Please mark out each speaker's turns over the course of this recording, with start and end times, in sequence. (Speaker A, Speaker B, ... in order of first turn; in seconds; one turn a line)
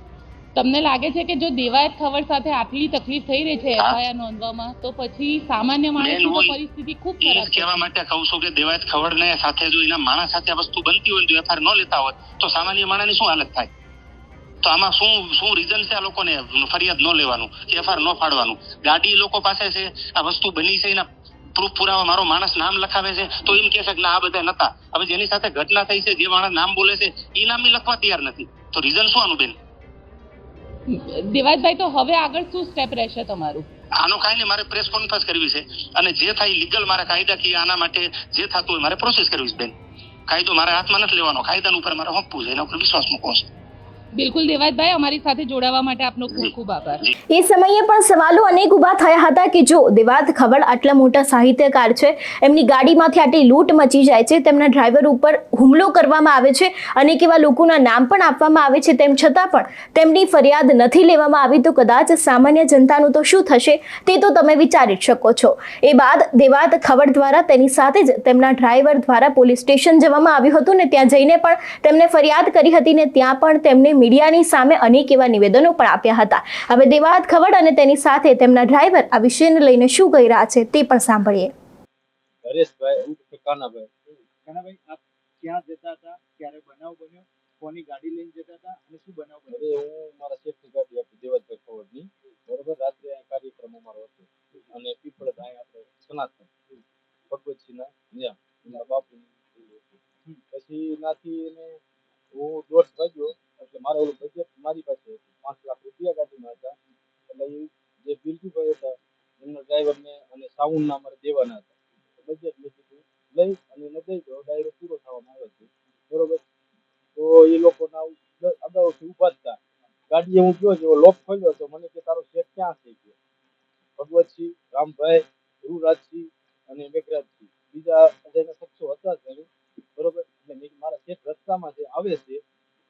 Speaker A: 0.6-7.9
Speaker B: 6.0-6.6
Speaker B: 7.2-13.7
Speaker B: 14.6-29.6
Speaker A: 30.9-33.7
Speaker B: 34.0-39.7
Speaker B: 40.3-43.5
Speaker A: 44.2-47.0
Speaker B: 46.3-47.1
Speaker C: 47.3-81.5
Speaker D: 82.4-83.9
Speaker E: 84.5-89.7
Speaker D: 89.5-96.5
Speaker D: 97.3-100.0
Speaker D: 100.5-101.8
Speaker D: 102.3-106.8
Speaker D: 107.3-116.4
Speaker D: 117.2-119.6
Speaker D: 120.1-123.1
Speaker D: 124.0-132.4